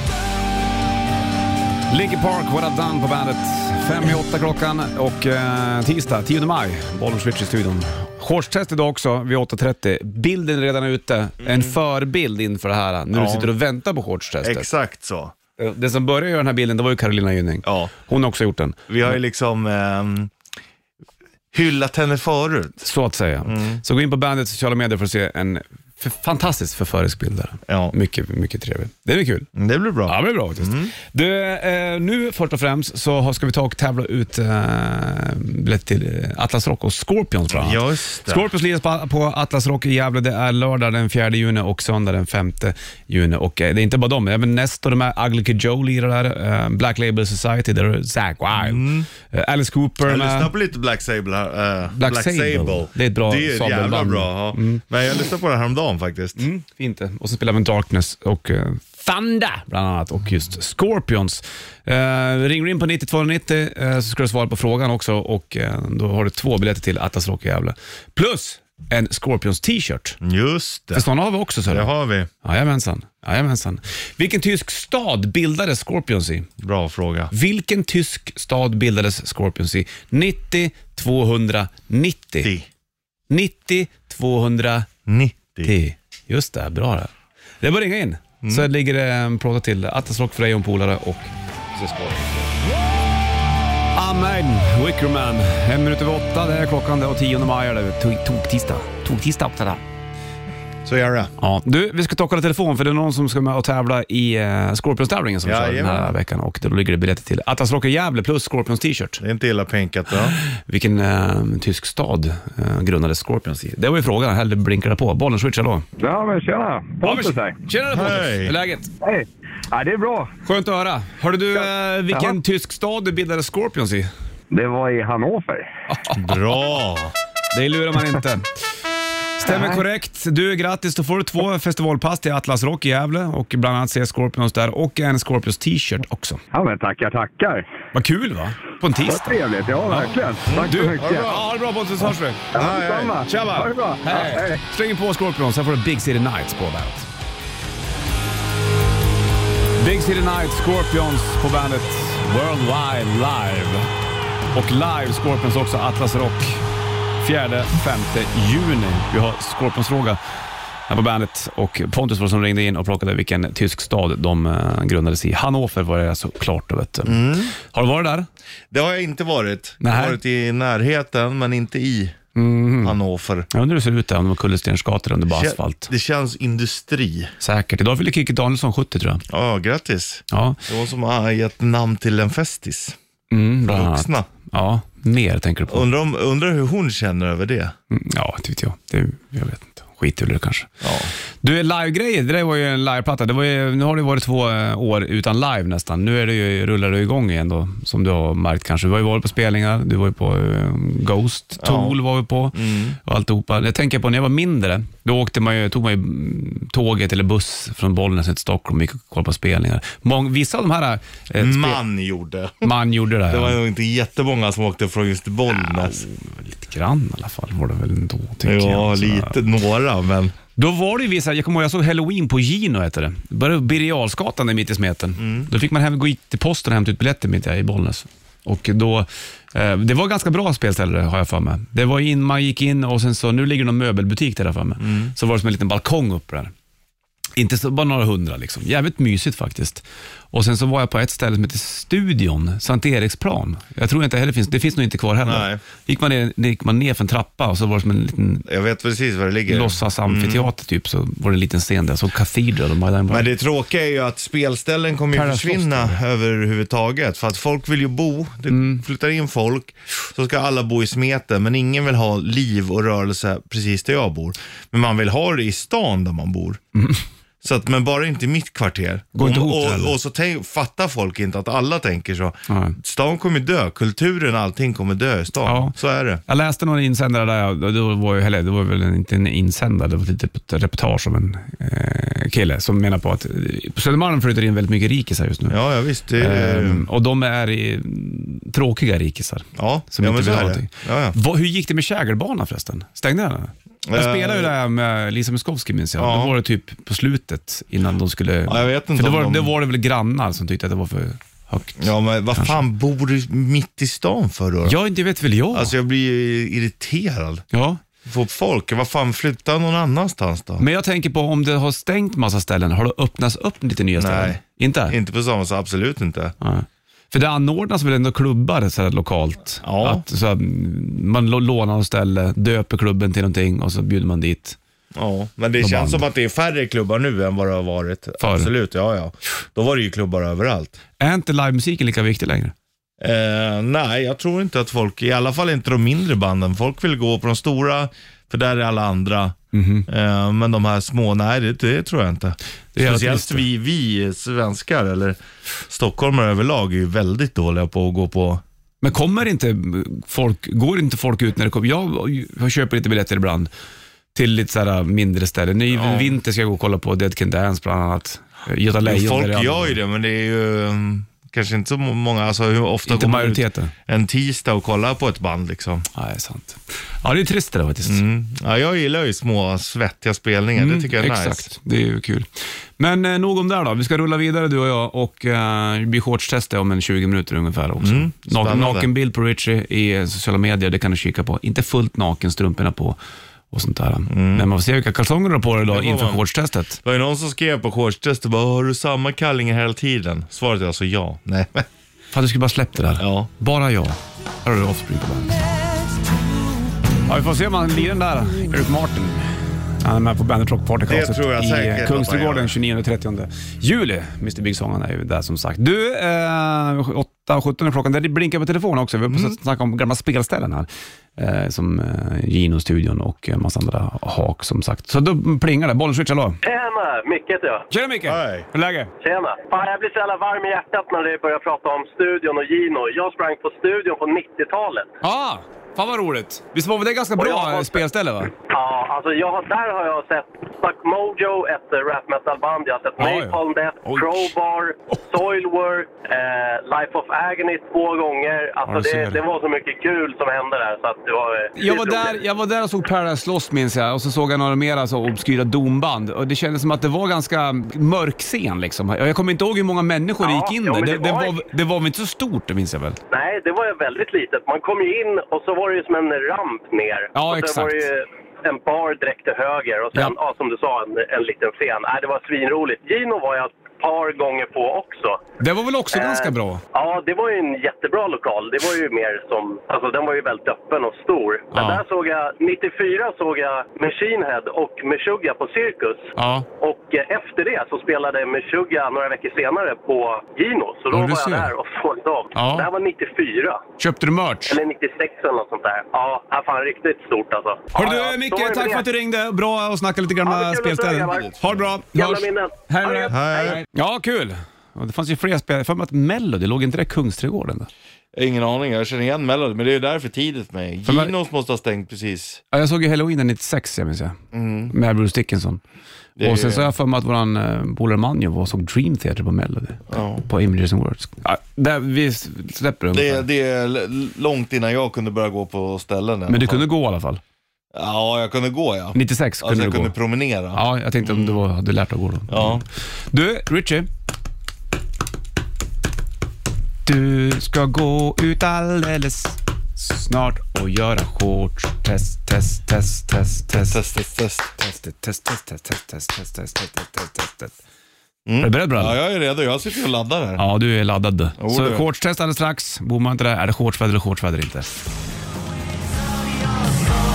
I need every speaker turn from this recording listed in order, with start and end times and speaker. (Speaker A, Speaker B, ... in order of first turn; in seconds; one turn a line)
Speaker A: 1.9-14.7
Speaker B: 11.4-11.8
Speaker B: 13.1-13.5
Speaker B: 14.4-15.3
Speaker A: 15.6-19.1
Speaker B: 17.6-17.9
Speaker B: 18.9-20.3
Speaker B: 21.5-22.8
Speaker A: 22.8-29.5
Speaker B: 23.4-23.8
Speaker B: 27.7-27.9
Speaker B: 29.6-30.9
Speaker A: 30.1-50.5
Speaker B: 37.5-38.5
Speaker B: 48.5-49.1
Speaker B: 50.0-56.5
Speaker A: 51.9-54.8
Speaker A: 56.4-70.2
Speaker B: 70.2-71.1
Speaker A: 70.9-71.9
Speaker B: 71.7-72.3
Speaker A: 72.4-76.5
Speaker B: 76.6-77.3
Speaker A: 77.3-82.5
Speaker B: 82.4-82.7
Speaker A: 83.3-84.9
Speaker B: 85.1-85.7
Speaker A: 85.6-92.5
Speaker B: 88.4-88.7
Speaker A: 93.9-99.8
Speaker B: 100.8-101.3
Speaker A: 101.4-109.2
Speaker B: 105.4-106.1
Speaker B: 109.2-110.4
Speaker A: 110.4-115.9
Speaker C: 116.0-117.6
Speaker A: 117.0-118.9
Speaker B: 117.9-118.6
Speaker C: 119.0-120.3
Speaker A: 120.5-124.1
Speaker C: 122.1-122.4
Speaker C: 124.5-125.7
Speaker A: 125.9-126.3
Speaker B: 126.2-127.1
Speaker A: 127.5-128.5
Speaker A: 129.4-136.4
Speaker C: 129.4-129.8
Speaker C: 136.5-137.7
Speaker A: 137.9-142.5
Speaker C: 139.1-141.4
Speaker B: 140.5-141.4
Speaker C: 142.5-144.6
Speaker B: 142.5-143.2
Speaker A: 143.2-147.1
Speaker A: 149.8-153.9
Speaker A: 154.5-156.6
Speaker A: 157.2-160.2
Speaker A: 160.9-168.3
Speaker B: 167.1-167.5
Speaker B: 168.7-172.2
Speaker A: 169.8-170.2
Speaker A: 172.3-173.0
Speaker B: 172.8-173.5
Speaker A: 173.5-175.9
Speaker B: 175.3-177.3
Speaker A: 177.4-179.2
Speaker B: 179.3-183.0
Speaker A: 180.3-180.6
Speaker A: 183.3-185.9
Speaker B: 183.7-184.3
Speaker B: 185.7-187.8
Speaker A: 187.9-190.8
Speaker B: 190.8-191.1
Speaker A: 191.4-211.8
Speaker B: 201.6-202.0
Speaker B: 202.5-203.0
Speaker B: 211.4-212.7
Speaker A: 212.6-213.6
Speaker B: 213.3-216.0
Speaker A: 215.5-219.4
Speaker B: 218.4-220.3
Speaker A: 220.6-236.5
Speaker B: 225.2-225.5
Speaker B: 234.8-235.1
Speaker A: 237.3-248.4
Speaker B: 245.2-245.6
Speaker B: 248.5-250.5
Speaker A: 249.5-253.3
Speaker B: 253.1-266.6
Speaker A: 255.1-256.0
Speaker A: 258.5-258.8
Speaker A: 266.8-267.0
Speaker B: 267.4-276.2
Speaker A: 269.1-269.9
Speaker A: 272.5-272.8
Speaker A: 275.4-285.6
Speaker B: 285.5-286.9
Speaker A: 286.2-302.6
Speaker B: 289.6-291.2
Speaker B: 293.9-294.5
Speaker B: 296.0-296.4
Speaker B: 298.5-299.5
Speaker B: 301.8-304.8
Speaker A: 304.6-305.7
Speaker B: 305.5-307.4
Speaker A: 307.5-307.8
Speaker B: 308.1-310.6
Speaker A: 310.6-315.0
Speaker B: 314.0-316.4
Speaker A: 316.4-324.6
Speaker B: 319.6-320.0
Speaker B: 324.9-330.8
Speaker A: 325.6-326.0
Speaker A: 328.2-328.5
Speaker A: 331.0-332.5
Speaker B: 333.0-348.4
Speaker A: 339.5-339.9
Speaker A: 342.8-343.4
Speaker A: 348.8-353.5
Speaker A: 354.1-359.8
Speaker B: 355.7-356.1
Speaker B: 358.8-365.9
Speaker A: 362.9-363.7
Speaker A: 365.9-368.0
Speaker B: 367.9-371.5
Speaker A: 370.6-383.0
Speaker B: 377.8-378.9
Speaker A: 383.5-386.8
Speaker B: 384.1-384.5
Speaker B: 385.7-386.2
Speaker B: 386.8-391.7
Speaker A: 392.1-395.3
Speaker B: 393.0-393.3
Speaker A: 397.1-416.4
Speaker B: 400.9-402.6
Speaker B: 409.1-409.4
Speaker D: 416.4-417.7
Speaker A: 417.7-418.9
Speaker B: 418.1-418.5
Speaker D: 419.0-424.9
Speaker A: 425.0-428.3
Speaker D: 427.2-427.8
Speaker D: 428.5-442.2
Speaker A: 433.0-434.3
Speaker A: 438.7-439.2
Speaker A: 441.6-453.0
Speaker D: 450.2-451.4
Speaker D: 453.1-465.2
Speaker A: 457.1-457.9
Speaker A: 465.4-466.6
Speaker D: 465.9-483.6
Speaker A: 471.5-471.8
Speaker A: 476.2-476.5
Speaker A: 480.9-481.5
Speaker A: 482.3-482.7
Speaker A: 483.8-484.6
Speaker D: 484.5-488.9
Speaker A: 487.8-497.7
Speaker D: 490.2-491.4
Speaker D: 491.9-493.6
Speaker B: 493.1-493.6
Speaker B: 498.1-502.4
Speaker A: 500.9-501.1
Speaker A: 502.5-504.2
Speaker B: 504.3-504.7
Speaker A: 504.7-505.6
Speaker B: 506.2-506.7
Speaker A: 506.2-513.2
Speaker B: 509.9-510.3
Speaker B: 512.9-516.6
Speaker A: 516.3-517.2
Speaker B: 517.7-521.4
Speaker A: 519.0-519.9
Speaker A: 520.5-523.9
Speaker B: 522.3-522.6
Speaker A: 526.9-533.8
Speaker B: 533.7-534.5
Speaker A: 534.6-537.6
Speaker B: 538.3-540.4
Speaker A: 538.4-539.0
Speaker A: 540.4-544.7
Speaker B: 541.4-541.9